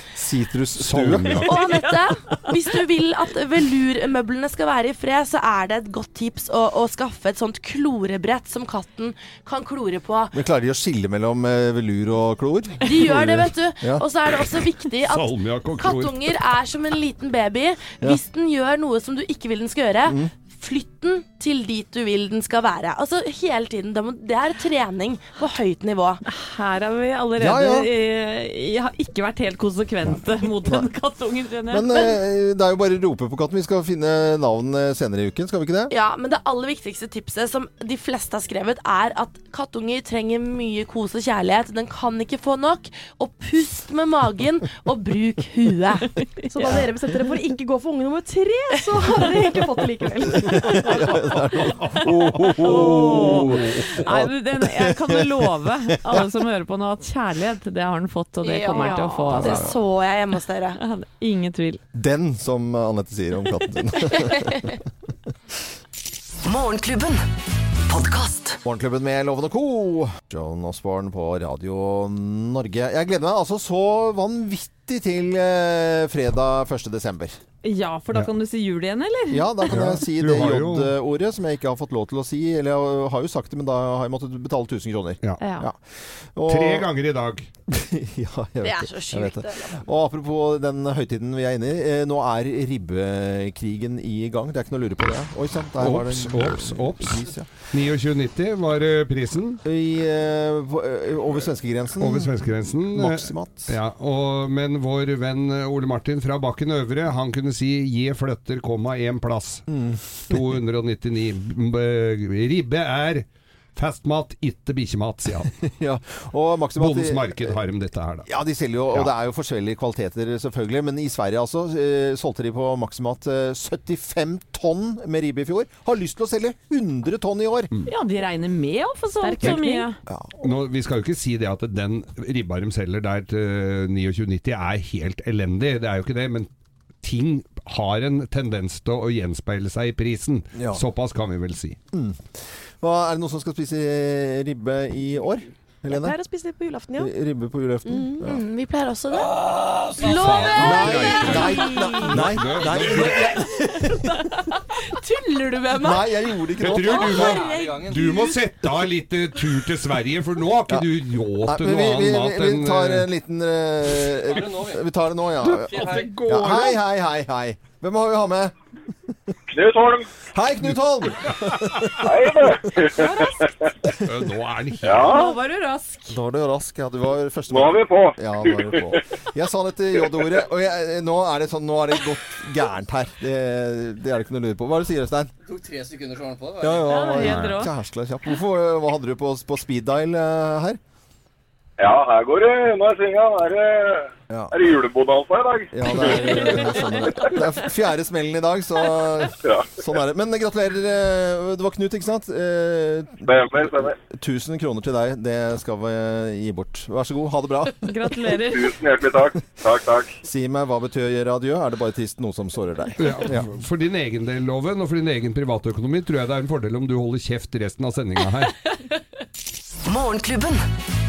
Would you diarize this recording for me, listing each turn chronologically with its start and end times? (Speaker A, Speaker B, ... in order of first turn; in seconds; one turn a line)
Speaker A: 0.1-1.5
Speaker B: 0.8-1.7
Speaker C: 1.4-10.3
Speaker A: 10.3-14.0
Speaker C: 12.8-26.2
Speaker B: 15.0-16.4
Speaker A: 20.1-20.3
Speaker D: 26.2-32.1
Speaker A: 27.4-27.9
Speaker A: 30.1-30.9
Speaker A: 31.7-35.9
Speaker C: 35.9-46.1
Speaker E: 46.5-51.3
Speaker D: 46.5-46.9
Speaker A: 50.4-55.5
Speaker B: 51.9-54.0
Speaker D: 52.5-59.7
Speaker C: 58.4-60.8
Speaker A: 59.3-59.7
Speaker D: 60.8-61.8
Speaker A: 61.9-64.8
Speaker F: 66.4-67.2
Speaker F: 67.9-68.6
Speaker A: 68.6-77.4
Speaker D: 77.6-79.8
Speaker A: 79.3-85.8
Speaker B: 79.7-80.9
Speaker D: 85.4-85.6
Speaker A: 86.3-86.9
Speaker B: 86.5-87.5
Speaker A: 87.7-97.5
Speaker C: 88.6-89.8
Speaker B: 95.8-99.6
Speaker A: 99.6-103.8
Speaker B: 102.0-109.7
Speaker A: 109.7-110.5
Speaker B: 110.3-115.5
Speaker A: 115.7-117.6
Speaker B: 116.8-118.3
Speaker A: 118.3-127.7
Speaker D: 127.8-130.0
Speaker E: 129.2-129.9
Speaker B: 130.4-136.5
Speaker B: 137.0-141.8
Speaker A: 140.6-140.8
Speaker A: 141.9-142.2
Speaker A: 142.8-146.1
Speaker E: 145.9-147.1
Speaker A: 147.0-148.4
Speaker E: 147.8-148.2
Speaker C: 148.2-149.3
Speaker G: 149.5-150.2
Speaker C: 150.0-151.2
Speaker B: 150.0-153.4
Speaker E: 150.1-152.2
Speaker A: 150.5-154.2
Speaker E: 154.7-156.1
Speaker A: 155.7-157.4
Speaker B: 156.6-163.1
Speaker G: 156.8-158.3
Speaker C: 157.2-157.9
Speaker A: 161.4-168.5
Speaker G: 164.2-164.8
Speaker G: 165.4-166.2
Speaker B: 165.6-166.8
Speaker H: 169.5-170.1
Speaker A: 170.3-173.1
Speaker B: 171.3-172.1
Speaker H: 172.0-173.5
Speaker D: 172.9-173.3
Speaker B: 173.9-175.1
Speaker H: 174.8-175.3
Speaker D: 175.0-176.2
Speaker A: 176.1-185.3
Speaker H: 177.5-179.0
Speaker G: 185.4-187.1
Speaker A: 186.6-190.8
Speaker D: 186.8-187.7
Speaker B: 187.2-187.6
Speaker H: 191.8-196.5
Speaker A: 194.3-194.5
Speaker A: 195.7-207.8
Speaker H: 199.4-199.8
Speaker H: 203.2-204.0
Speaker D: 207.8-208.7
Speaker H: 208.4-210.2
Speaker A: 210.2-213.5
Speaker B: 213.0-218.6
Speaker F: 219.8-220.7